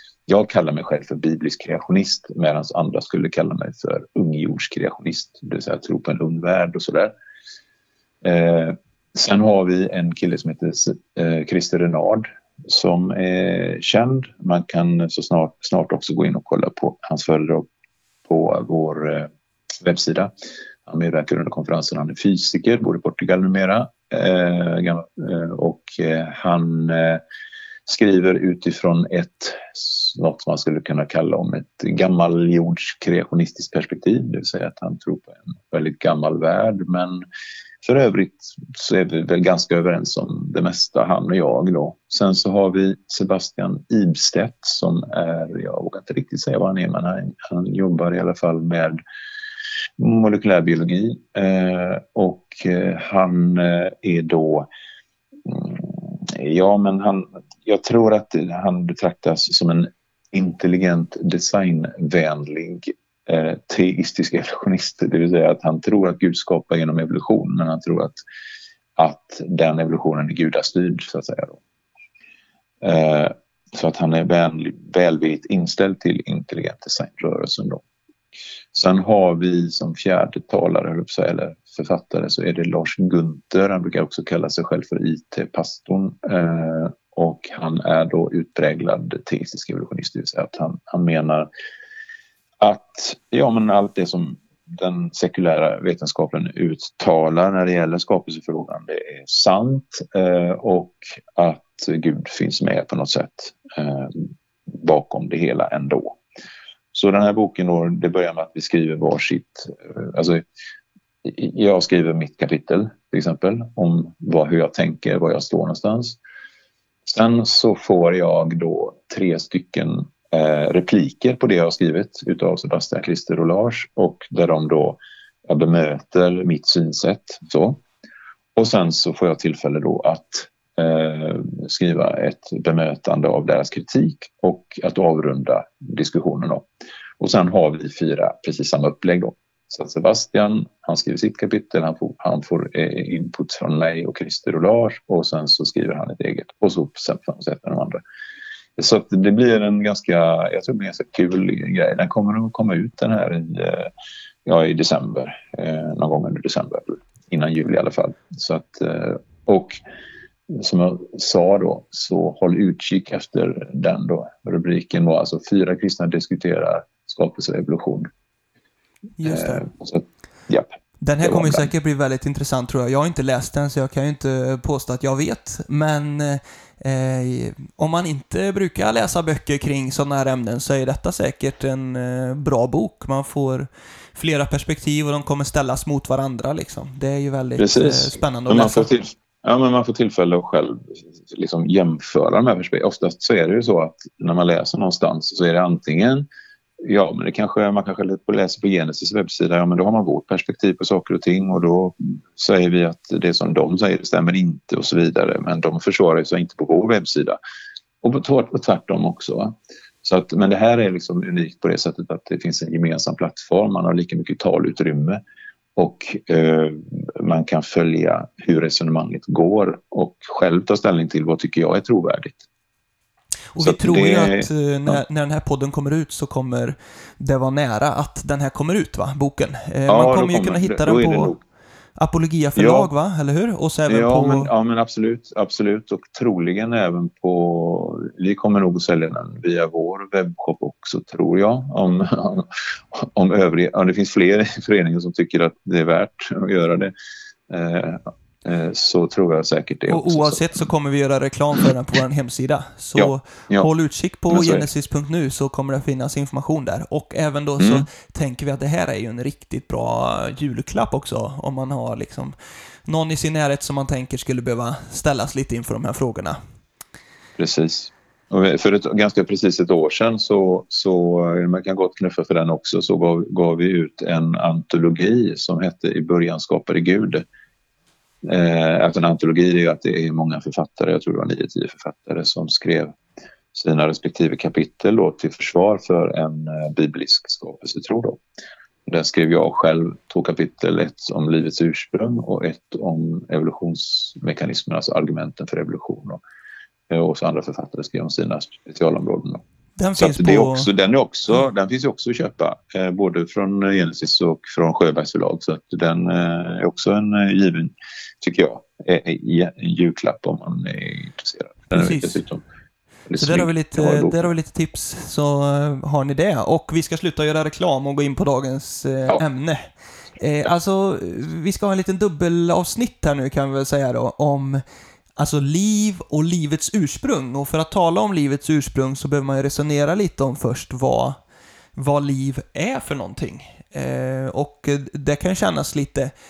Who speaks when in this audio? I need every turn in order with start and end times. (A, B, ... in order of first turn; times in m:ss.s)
0:00.3-0:07.1 A
0:08.2-0:17.7 A
0:18.2-0:19.3 A
0:19.8-0:20.3 A
0:20.8-0:27.2 A
0:27.8-0:37.2 A
0:37.8-0:49.0 A
0:50.0-0:54.7 A
0:55.4-1:08.2 A
1:09.0-1:11.6 A
1:12.8-1:17.8 A
1:18.7-1:31.5 A
1:32.6-1:46.2 A
1:46.9-1:50.4 A
1:51.2-1:56.2 A
1:57.0-2:07.8 A
2:08.6-2:16.6 A
2:17.2-2:28.0 A
2:28.8-2:33.9 A
2:34.4-2:39.8 A
2:40.5-2:48.1 A
2:49.2-2:49.6 B
2:49.2-2:51.7 A
2:51.0-3:08.9 B
3:07.6-3:16.2 A
3:16.8-3:27.4 A
3:28.0-3:35.2 A
3:35.8-3:42.4 A
3:43.5-3:51.4 B
3:43.6-3:45.0 A
3:49.9-3:51.4 A
3:52.0-3:54.5 B
3:52.6-3:52.9 A
3:53.9-4:06.9 A
4:07.5-4:10.7 A
4:09.9-4:26.4 B
4:13.0-4:13.7 A
4:14.3-4:14.7 A
4:17.6-4:17.8 A
4:27.4-4:37.2 A
4:38.2-4:43.0 A
4:43.5-4:48.2 A
4:48.9-4:56.2 A
4:56.9-4:59.4 A
4:59.8-5:00.7 B
5:00.0-5:12.4 A
5:11.7-5:12.2 B
5:13.1-5:14.3 A
5:13.2-5:24.6 B
5:25.2-5:31.2 B
5:31.7-5:36.1 B